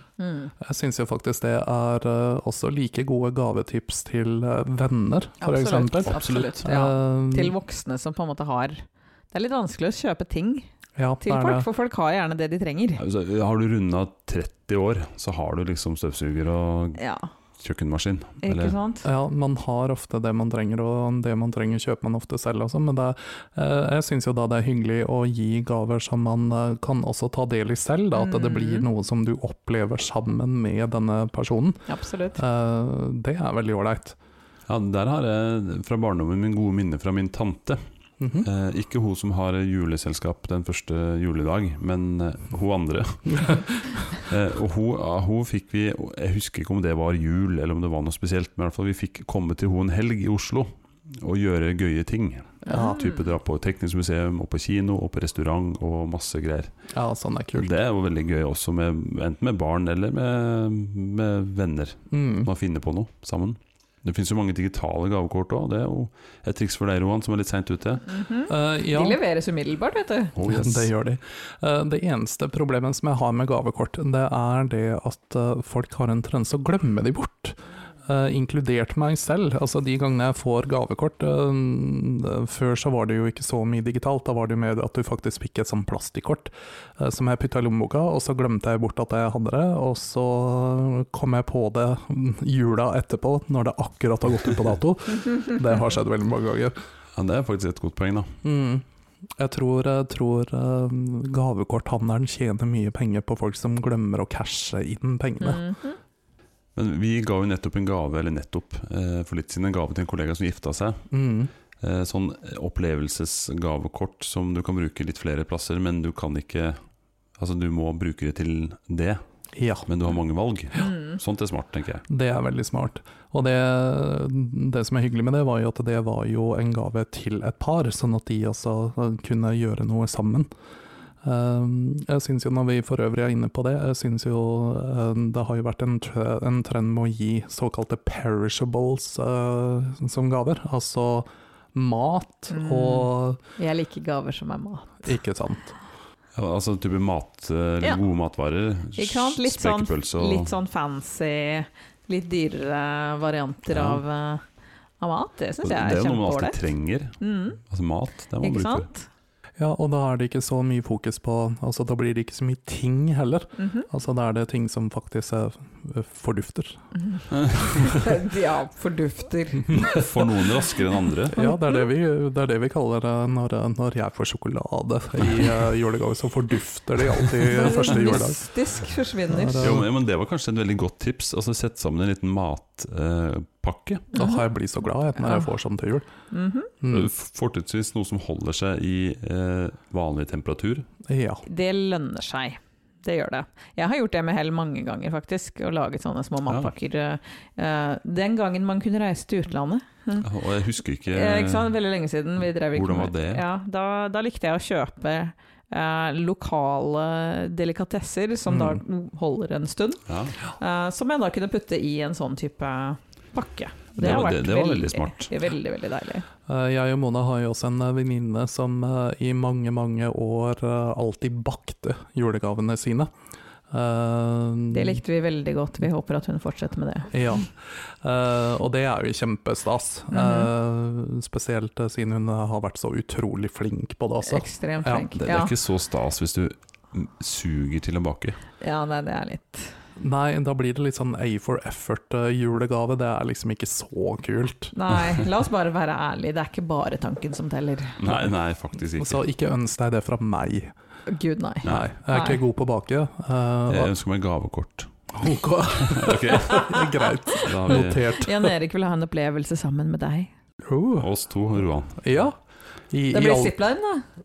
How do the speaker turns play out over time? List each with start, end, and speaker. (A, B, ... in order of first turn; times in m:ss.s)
0:00.2-0:00.5 A
0:00.6-0:07.5 B
0:05.4-0:10.7 A
0:06.1-0:06.6 C
0:11.0-0:11.7 B
0:11.2-0:13.0 A
0:13.0-0:17.0 C
0:17.0-0:17.3 A
0:17.6-0:18.8 C
0:18.4-0:19.1 A
0:19.0-0:31.8 B
0:28.1-0:28.8 A
0:31.9-0:32.4 A
0:32.4-0:34.2 B
0:34.7-0:37.8 C
0:38.2-0:38.5 B
0:38.4-0:56.7 C
0:52.7-0:53.2 A
0:52.7-0:53.0 B
0:56.9-0:57.7 B
0:57.6-1:08.1 C
1:02.1-1:02.5 B
1:08.1-1:10.3 A
1:08.5-1:09.2 B
1:10.4-1:10.9 C
1:10.4-1:36.8 B
1:37.2-1:38.4 C
1:38.4-1:38.8 B
1:39.4-1:45.7 B
1:45.4-1:46.0 A
1:46.8-1:51.1 C
1:51.1-1:51.5 B
1:51.8-1:56.8 C
1:57.4-1:59.2 C
1:59.5-1:59.9 B
1:59.9-2:02.0 C
2:02.1-2:10.5 B
2:11.2-2:23.4 B
2:22.5-2:25.0 A
2:25.0-2:25.8 B
2:26.4-2:30.5 C
2:29.0-2:34.4 A
2:33.7-2:34.0 C
2:35.0-2:36.7 A
2:35.6-2:38.9 C
2:37.2-2:37.6 A
2:38.4-2:39.1 A
2:39.6-2:46.8 B
2:43.6-2:43.9 A
2:47.0-2:50.1 A
2:49.7-2:51.4 C
2:51.3-2:58.4 B
2:57.5-2:59.7 A
2:59.3-2:59.9 B
2:59.6-3:04.1 C
3:04.1-3:06.1 B
3:04.2-3:04.4 A
3:06.3-3:06.7 A
3:06.8-3:07.1 B
3:06.9-3:10.9 C
3:11.1-3:11.4 B
3:11.5-3:20.3 A
3:20.2-3:21.8 C
3:21.1-3:36.3 A
3:22.7-3:23.4 C
3:28.5-3:28.8 B
3:30.1-3:30.4 C
3:34.0-3:35.3 C
3:36.5-3:43.1 B
3:43.7-3:45.0 B
3:44.7-3:47.1 A
3:47.1-3:55.1 B
3:50.1-3:50.5 A
3:54.2-3:55.5 A
3:55.2-3:58.4 C
3:58.6-3:59.7 A
4:00.0-4:04.7 B
4:04.7-4:08.1 A
4:08.0-4:09.2 C
4:09.0-4:10.7 B
4:11.1-4:12.4 A
4:11.6-4:11.9 C
4:11.6-4:13.9 B
4:13.7-4:14.9 C
4:15.1-4:18.5 B
4:15.8-4:16.8 C
4:17.4-4:18.2 C
4:17.7-4:20.3 A
4:20.6-4:21.1 B
4:21.0-4:22.0 C
4:22.0-4:22.4 B
4:22.9-4:23.6 B
4:23.1-4:24.0 A